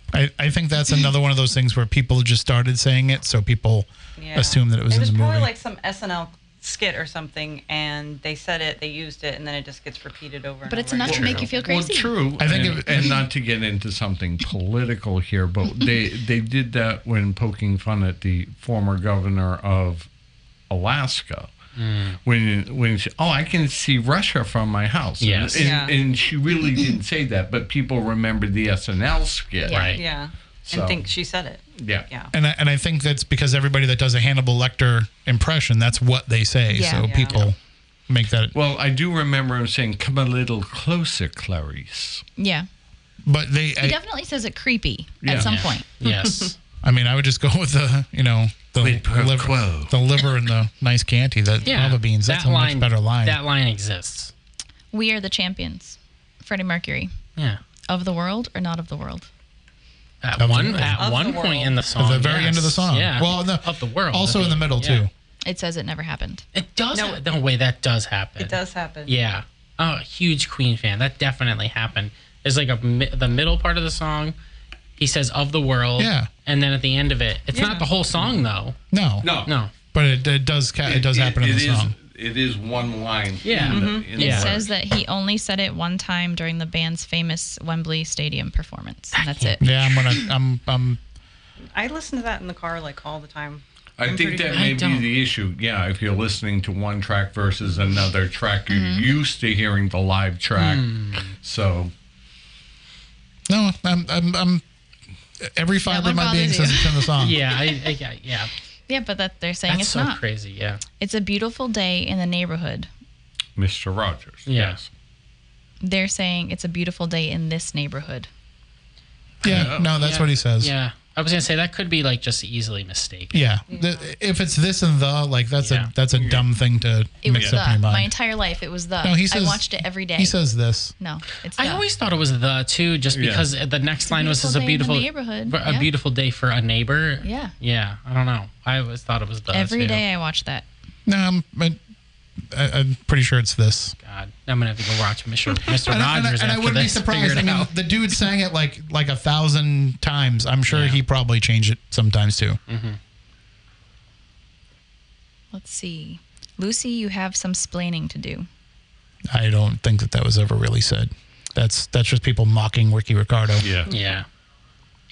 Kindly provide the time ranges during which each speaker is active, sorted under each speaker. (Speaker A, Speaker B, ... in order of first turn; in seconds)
Speaker A: 0.1-5.5, 12.4-13.2, 32.3-38.5, 43.2-44.0, 46.8-53.4, 60.4-61.1, 62.0-65.1, 76.0-76.3, 78.9-79.3, 79.9-81.9, 89.6-91.0, 103.5-104.6, 105.4-107.4, 119.4-120.7, 123.3-128.1, 129.0-130.9, 141.1-141.8, 142.4-143.9, 145.7-152.6, 159.3-163.7
Speaker B: 4.2-11.5, 25.6-25.9, 29.9-32.3, 36.9-37.4, 46.0-46.4, 60.9-61.7, 66.9-67.2, 68.4-69.1, 77.5-77.9, 83.7-84.1, 91.7-94.7, 123.7-124.1
Speaker C: 10.7-12.3, 29.6-30.0, 36.7-37.1, 42.4-42.7, 43.8-45.9, 54.9-57.1, 57.9-59.3, 65.4-66.5, 84.2-89.6, 98.7-99.1, 105.8-107.3, 108.9-110.2, 111.0-112.9, 115.8-118.3, 127.2-130.3, 131.0-131.8, 134.1-135.9, 137.2-137.5, 139.5-140.7, 155.5-158.5
Speaker D: 11.0-20.1, 20.7-21.5, 22.2-29.9, 30.7-31.0, 31.7-32.1, 38.5-42.2, 45.2-45.5, 48.8-49.9, 78.2-78.4, 79.2-79.5, 80.8-84.7, 94.0-101.9, 113.5-114.9, 119.4-119.9, 126.2-126.5, 127.3-127.6, 133.1-133.5, 163.6-163.9
Speaker E: 21.8-22.2, 25.2-25.7, 29.7-30.0, 45.3-46.6, 51.6-54.3, 57.4-57.6, 60.2-65.0, 66.5-74.3, 75.0-78.8, 79.4-79.7, 83.4-84.5, 89.1-90.2, 94.5-95.0, 100.5-101.3, 107.2-108.5, 109.7-110.8, 114.5-114.8, 119.5-123.4, 125.6-125.9, 131.6-140.0, 144.0-147.7, 150.7-151.0, 152.7-153.0, 163.9-164.2